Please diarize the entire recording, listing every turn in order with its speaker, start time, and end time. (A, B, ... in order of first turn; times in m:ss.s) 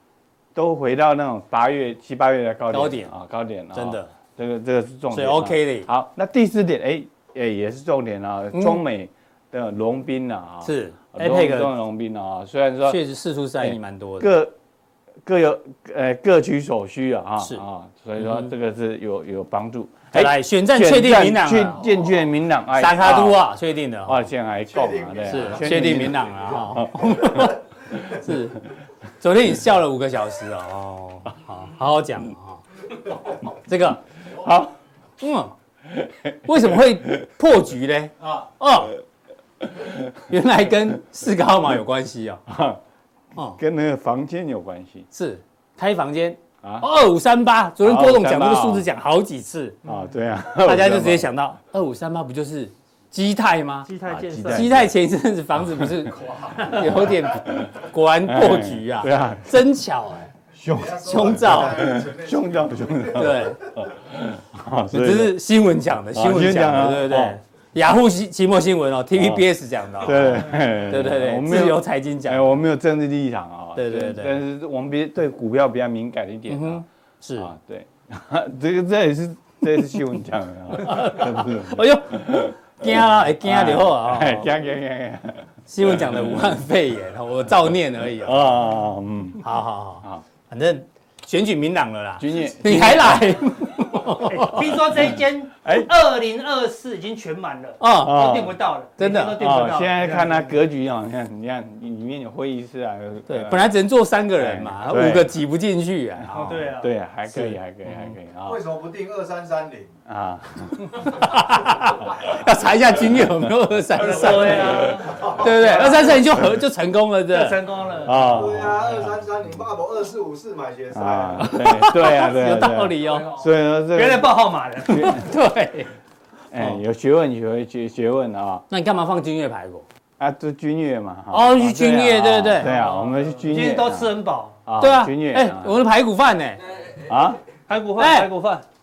0:00.5-0:13.0 A
0:02.7-0:03.1 B
0:03.7-0:04.1 B
0:05.1-0:05.9 B
0:08.5-0:08.8 B
0:10.6-0:11.7 B
0:12.8-0:14.3 B
0:13.6-0:14.5 A
0:15.2-0:23.4 A
0:18.2-0:18.5 B
0:20.1-0:21.9 B
0:22.8-0:24.2 B
0:24.0-0:28.4 A
0:24.7-0:26.0 C
0:25.2-0:28.7 B
0:29.2-0:32.6 B
0:33.3-0:34.0 B
0:34.3-0:34.8 A
0:35.2-0:35.5 B
0:35.9-0:36.8 A
0:36.4-0:39.0 B
0:39.6-0:40.1 A
0:40.3-0:42.4 B
0:42.5-0:42.8 A
0:43.4-0:43.6 B
0:43.6-0:45.1 A
0:45.1-0:49.8 B
0:46.6-0:46.9 A
0:47.8-0:48.9 A
0:49.8-0:51.3 A
0:50.6-0:53.9 B
0:53.9-0:54.7 D
0:54.0-0:54.9 A
0:54.5-1:00.3 B
0:55.7-0:59.6 A
1:00.6-1:05.4 A
1:00.6-1:03.3 C
1:01.0-1:02.0 B
1:03.1-1:03.7 B
1:04.9-1:12.6 B
1:06.1-1:07.4 A
1:09.1-1:16.8 A
1:13.8-1:14.4 B
1:16.5-1:17.5 B
1:17.4-1:26.6 A
1:20.8-1:24.5 B
1:25.7-1:28.5 B
1:28.2-1:29.4 A
1:29.4-1:34.9 B
1:32.2-1:33.4 A
1:34.2-1:40.4 D
1:35.6-1:35.9 A
1:37.8-1:38.2 B
1:37.9-1:38.6 A
1:39.0-1:39.4 B
1:39.4-1:43.7 A
1:43.3-1:46.3 B
1:44.4-1:45.4 A
1:46.2-1:48.7 A
1:46.3-1:46.9 D
1:47.3-1:48.1 B
1:48.4-1:49.9 C
1:50.1-1:51.3 A
1:50.8-1:57.6 B
1:53.2-1:53.5 A
1:53.9-1:56.2 D
1:54.3-1:55.2 A
1:57.3-1:58.2 D
1:58.0-1:59.2 A
1:58.2-2:01.5 C
2:00.9-2:04.4 A
2:01.4-2:03.3 B
2:03.9-2:05.2 D
2:04.9-2:05.3 A
2:04.9-2:05.9 B
2:06.5-2:08.6 A
2:08.7-2:09.9 B
2:10.2-2:15.8 A
2:11.3-2:12.7 B
2:12.6-2:14.6 D
2:14.8-2:16.8 B
2:17.0-2:17.4 A
2:17.7-2:18.6 D
2:18.0-2:18.3 B